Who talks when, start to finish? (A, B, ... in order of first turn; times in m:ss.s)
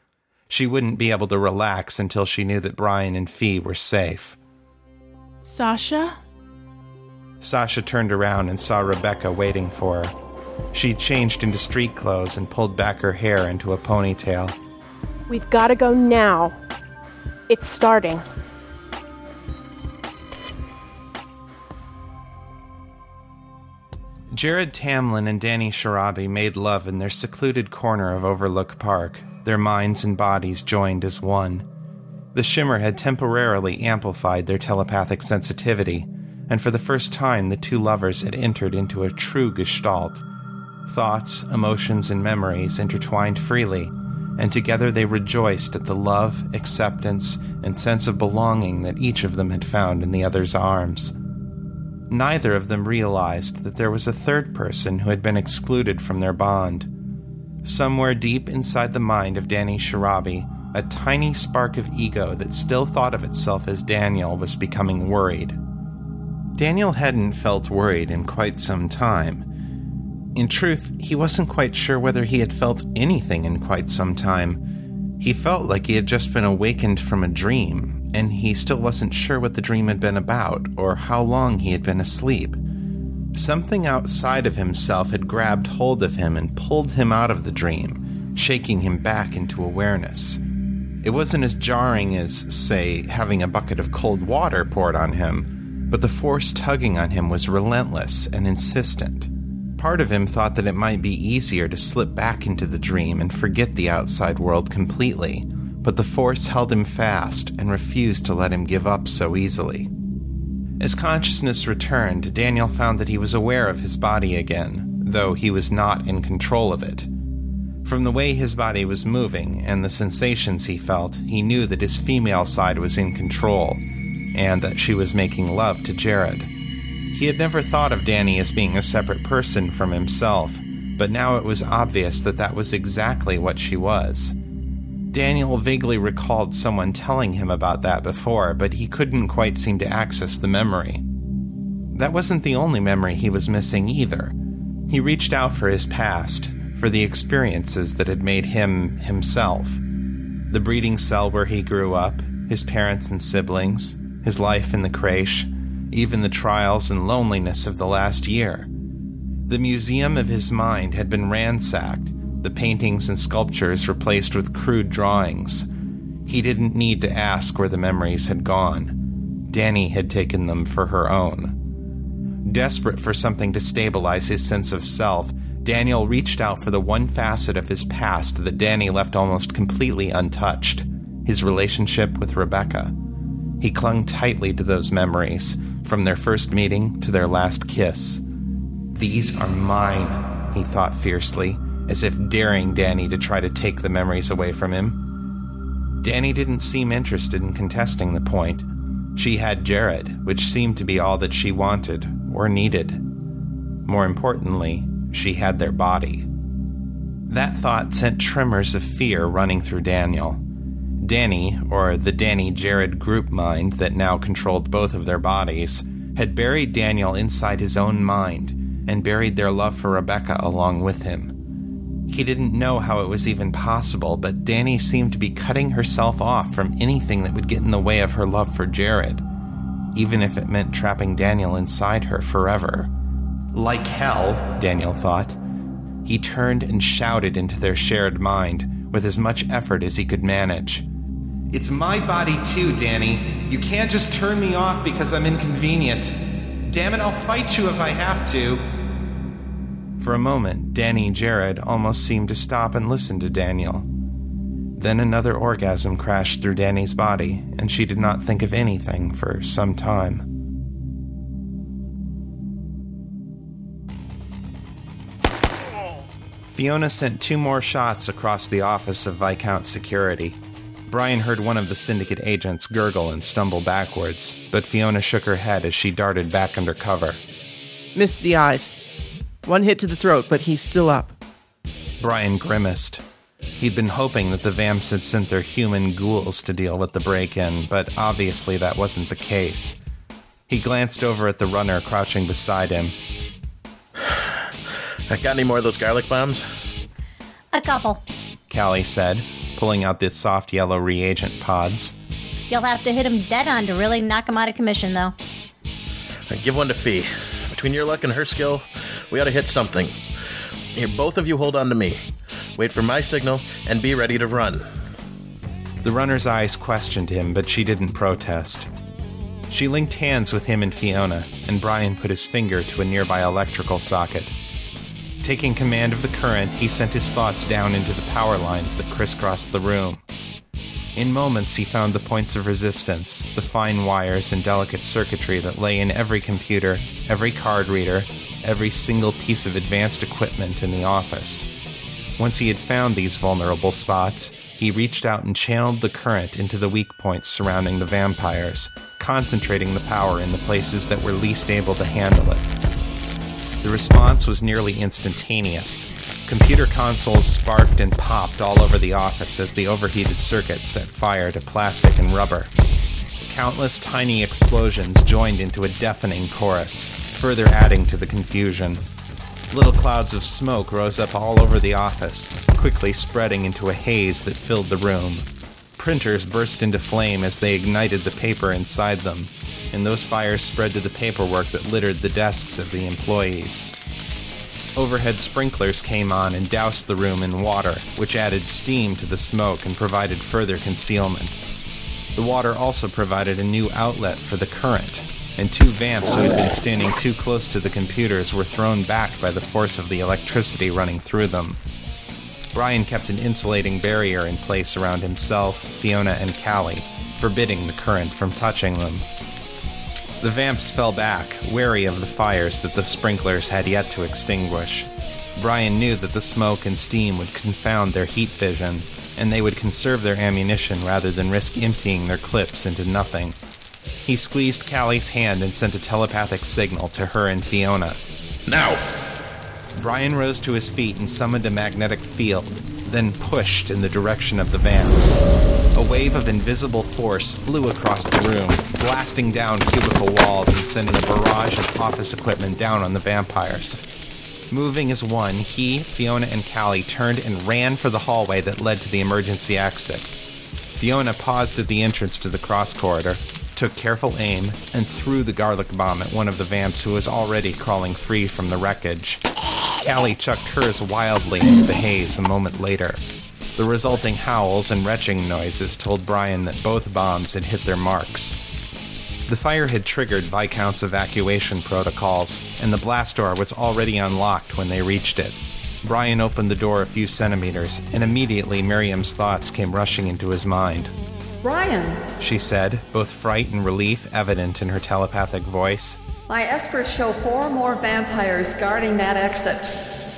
0:00.5-0:04.4 A
0:05.4-0:06.2 B
0:07.4-0:10.1 A
0:10.7-0:14.6 A
0:15.3-0:16.6 B
0:17.5-0:18.2 B
0:24.3-0:31.7 A
0:32.3-0:40.2 A
0:40.9-0:51.1 A
0:52.1-0:56.9 A
0:57.6-1:05.6 A
1:06.6-1:09.5 A
1:10.3-1:14.7 A
1:15.2-1:22.6 A
1:23.3-1:30.4 A
1:31.0-1:49.9 A
1:50.8-1:57.1 A
1:57.8-2:03.8 A
2:04.3-2:06.5 A
2:07.1-2:14.4 A
2:15.1-2:21.0 A
2:21.9-2:24.4 A
2:24.9-2:29.8 A
2:30.5-2:38.7 A
2:39.5-2:45.7 A
2:46.2-2:51.6 A
2:52.4-3:03.0 A
3:03.6-3:08.2 A
3:08.9-3:15.0 A
3:16.0-3:23.1 A
3:23.8-3:26.3 A
3:27.3-3:30.4 A
3:31.0-3:41.4 A
3:42.1-3:49.2 A
3:49.9-3:52.9 A
3:53.5-3:55.4 A
3:56.0-4:00.8 A
4:01.5-4:08.6 A
4:10.0-4:13.9 A
4:14.8-4:20.3 A
4:26.5-4:37.2 A
4:37.9-4:38.7 C
4:39.4-4:41.1 C
4:42.0-4:43.0 A
4:43.6-4:49.8 A
4:50.5-4:52.9 A
4:55.1-4:56.4 D
4:57.5-4:58.0 E
4:58.5-5:02.0 A
5:02.5-5:05.1 E
5:06.3-5:10.0 D
5:10.7-5:12.0 D
5:12.6-5:14.6 D
5:15.8-5:18.7 A
5:19.5-5:24.3 A
5:25.2-5:30.0 A
5:31.0-5:41.5 A
5:42.2-5:52.5 A
5:53.6-6:02.5 A
6:03.2-6:08.8 A
6:09.5-6:23.7 A
6:24.8-6:31.4 A
6:32.2-6:41.6 A
6:42.5-6:49.0 A
6:50.2-7:03.4 A
7:04.0-7:08.0 A
7:08.5-7:08.8 D
7:09.8-7:15.2 A
7:15.7-7:23.8 A
7:24.5-7:30.1 A
7:30.8-7:39.2 A
7:39.8-7:43.0 A
7:43.6-7:48.4 A
7:49.3-8:00.9 A
8:01.4-8:02.0 F
8:02.2-8:06.0 A
8:06.3-8:09.8 F